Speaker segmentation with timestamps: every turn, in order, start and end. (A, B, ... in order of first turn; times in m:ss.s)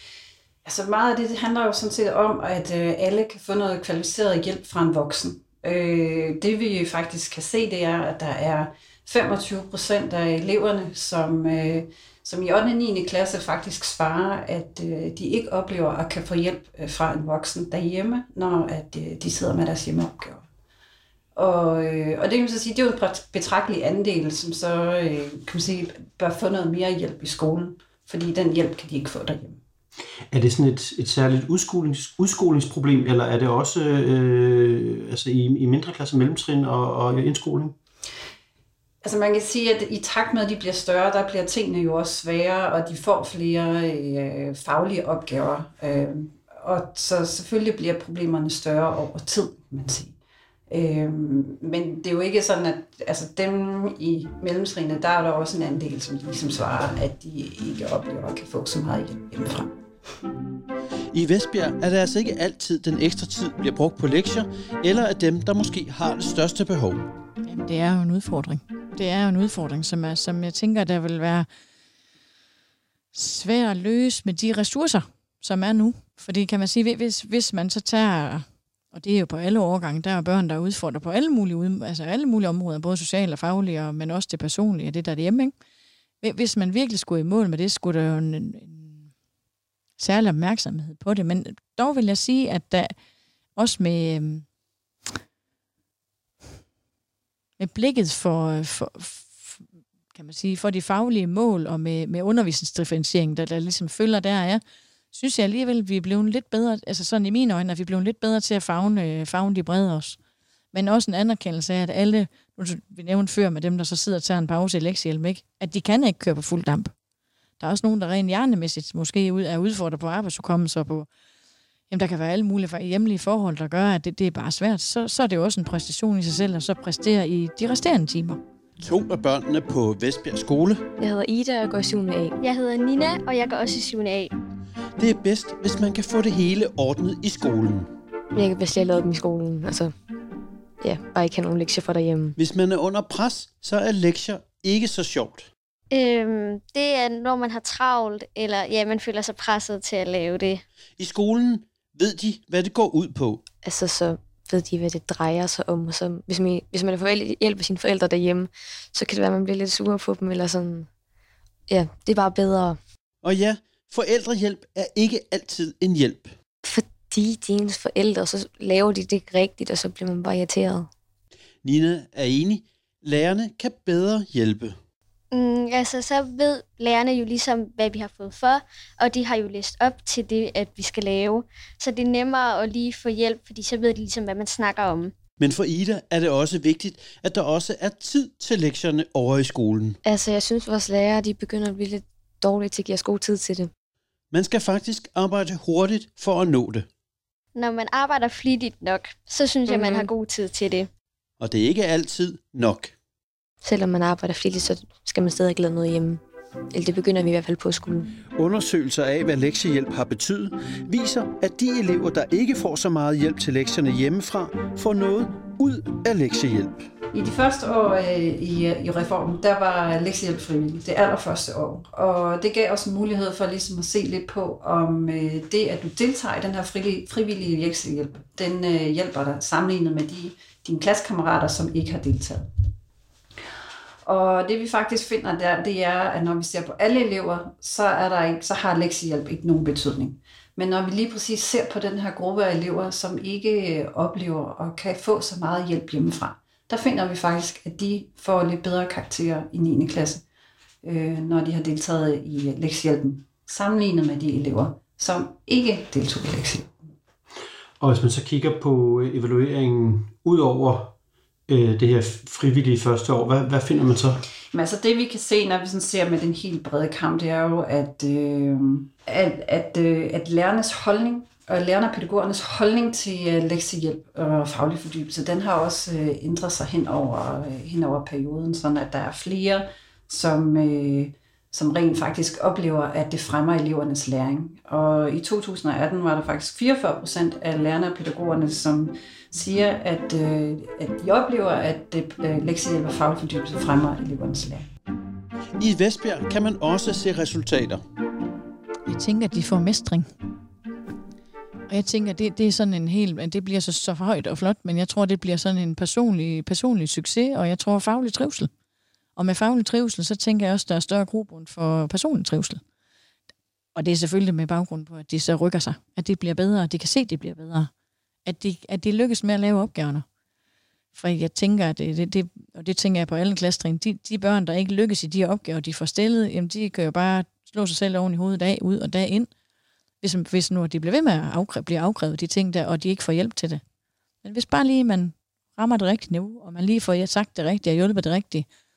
0:00.6-0:20.4 A
0:21.4-0:29.6 A
0:30.3-0:37.7 B
0:39.0-0:50.2 A
0:50.7-0:59.7 A
1:01.1-1:07.0 B
1:07.4-1:11.5 C
1:13.1-1:25.5 C
1:26.2-1:29.1 C
1:30.0-1:32.9 C
1:33.6-1:34.4 C
1:37.6-1:50.2 C
1:50.7-1:56.9 C
1:57.6-2:01.1 C
2:01.9-2:08.4 C
2:08.8-2:10.8 B
2:11.0-2:12.4 D
2:12.4-2:14.3 E
2:15.0-2:17.9 B
2:18.3-2:19.9 D
2:20.8-2:22.4 D
2:22.4-2:25.5 B
2:25.9-2:30.6 E
2:31.0-2:33.4 B
2:33.6-2:40.9 D
2:41.7-2:42.8 D
2:43.2-2:46.3 B
2:46.6-2:50.9 D
2:51.6-2:54.8 B
2:55.3-3:05.1 E
3:05.4-3:10.0 B
3:10.0-3:13.7 D
3:14.3-3:16.9 B
3:17.6-3:20.9 E
3:21.4-3:22.9 B
3:23.6-3:28.1 D
3:28.4-3:36.8 B
3:37.1-3:52.5 A
3:54.0-4:10.2 A
4:10.8-4:16.7 A
4:17.8-4:20.9 B
4:21.5-4:24.2 B
4:24.5-4:54.7 A
4:55.6-4:57.8 B
4:58.9-5:00.1 C
5:01.7-5:08.5 C
5:09.2-5:12.6 C
5:13.8-5:17.7 C
5:18.2-5:20.0 C
5:20.9-5:29.3 C
5:30.0-5:33.6 C
5:34.2-5:38.5 C